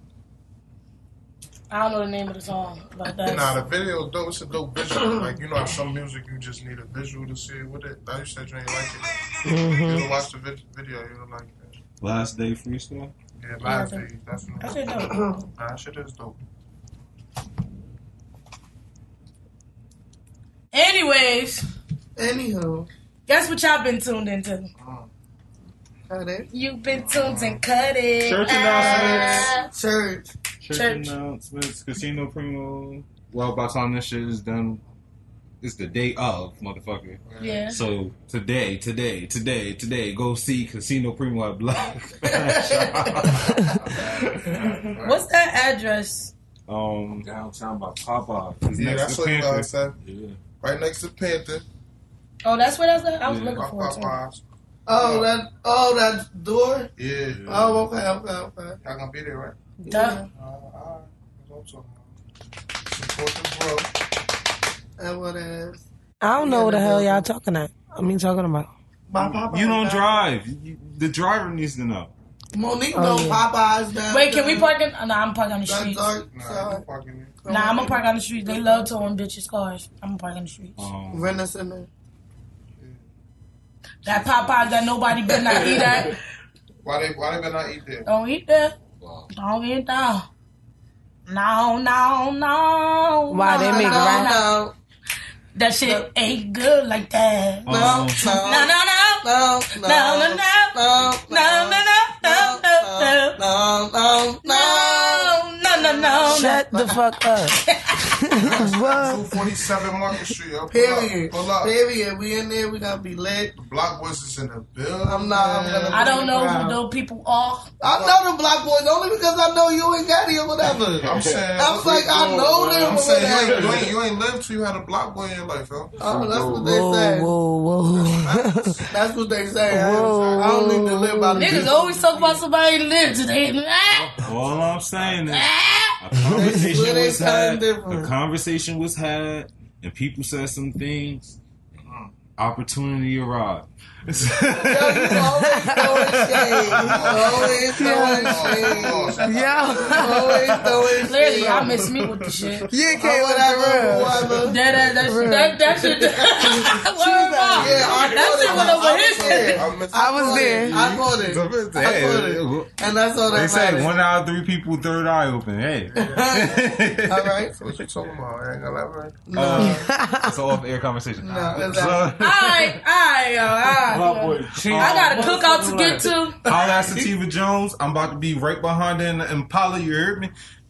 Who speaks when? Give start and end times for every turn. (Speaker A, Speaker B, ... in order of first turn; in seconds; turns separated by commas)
Speaker A: 1.7-3.5, Speaker B: 3.2-11.8, Speaker C: 9.4-10.1, Speaker D: 12.0-13.1, Speaker B: 13.4-16.4, Speaker A: 13.6-14.1, Speaker A: 14.6-15.4, Speaker E: 15.0-15.4, Speaker A: 20.7-21.6, Speaker E: 22.1-22.9, Speaker A: 23.3-24.7, Speaker B: 24.8-25.1, Speaker E: 26.1-26.5, Speaker A: 26.5-29.7, Speaker B: 26.9-27.6, Speaker D: 28.2-29.5, Speaker E: 28.7-30.3, Speaker D: 30.6-34.8, Speaker A: 30.7-31.1, Speaker D: 35.6-43.7, Speaker B: 37.3-37.6, Speaker A: 37.4-37.8, Speaker E: 42.2-43.3, Speaker B: 43.2-45.2, Speaker A: 45.0-46.3, Speaker D: 46.7-47.3, Speaker F: 47.1-48.6, Speaker D: 48.6-49.7, Speaker B: 48.7-50.0, Speaker F: 50.0-50.4, Speaker B: 50.6-51.6, Speaker A: 52.4-54.2, Speaker B: 53.2-54.4, Speaker E: 54.9-56.9, Speaker B: 54.9-55.3, Speaker B: 57.0-57.8, Speaker F: 57.4-57.8, Speaker E: 57.5-58.8, Speaker B: 58.8-59.6, Speaker E: 59.8-60.3, Speaker A: 59.9-60.2, Speaker B: 60.3-62.1, Speaker B: 62.9-63.9, Speaker E: 65.0-65.8, Speaker C: 66.2-68.7, Speaker E: 66.3-67.3, Speaker E: 69.1-70.2, Speaker D: 69.2-72.1, Speaker E: 72.5-74.7, Speaker C: 72.9-73.4, Speaker A: 74.1-76.1, Speaker E: 75.7-76.8, Speaker B: 76.3-77.4, Speaker E: 77.4-78.9, Speaker A: 77.5-80.8, Speaker D: 80.8-81.4, Speaker E: 81.1-81.9, Speaker A: 84.0-86.2, Speaker F: 84.1-84.7, Speaker F: 85.5-86.2, Speaker B: 86.8-88.1, Speaker A: 88.0-88.8, Speaker F: 89.0-89.3, Speaker A: 89.3-90.2, Speaker A: 91.3-94.5, Speaker C: 93.3-94.3, Speaker E: 93.5-94.7, Speaker A: 95.5-103.4, Speaker E: 95.8-96.1, Speaker D: 97.7-98.2, Speaker E: 97.7-107.0, Speaker A: 104.4-106.6, Speaker C: 106.3-109.4, Speaker A: 107.6-108.1, Speaker B: 108.3-111.7, Speaker E: 110.7-113.5, Speaker B: 113.5-116.1, Speaker E: 115.0-116.8, Speaker A: 115.9-117.7, Speaker E: 117.8-123.9, Speaker B: 117.8-118.2, Speaker F: 121.0-121.5, Speaker B: 121.0-126.5, Speaker F: 122.0-123.9, Speaker F: 126.0-126.8, Speaker E: 126.0-127.3, Speaker C: 126.6-128.9, Speaker B: 128.0-128.8, Speaker E: 128.9-132.4, Speaker C: 129.7-131.7, Speaker B: 130.0-130.4, Speaker A: 131.3-134.2, Speaker F: 133.9-135.2, Speaker D: 134.2-141.4, Speaker A: 135.3-136.0, Speaker E: 136.3-138.1, Speaker B: 141.8-142.1, Speaker D: 142.4-147.4, Speaker E: 144.5-151.8, Speaker C: 145.2-146.2, Speaker B: 146.7-150.3, Speaker C: 147.8-150.6, Speaker A: 151.0-152.7, Speaker D: 151.5-152.6, Speaker C: 152.7-154.3, Speaker E: 152.9-154.6, Speaker A: 154.4-159.6, Speaker C: 155.0-157.9, Speaker E: 156.2-156.7, Speaker E: 157.5-164.0, Speaker B: 157.6-161.1, Speaker C: 159.9-160.8, Speaker D: 160.9-162.7, Speaker D: 163.3-167.4, Speaker E: 166.0-167.5, Speaker B: 167.6-169.2, Speaker E: 169.3-169.9, Speaker D: 169.3-172.8, Speaker C: 169.6-170.3, Speaker E: 171.2-172.2, Speaker A: 172.2-176.4, Speaker F: 173.8-176.1, Speaker D: 174.6-175.3, Speaker E: 176.4-177.1, Speaker D: 176.4-180.3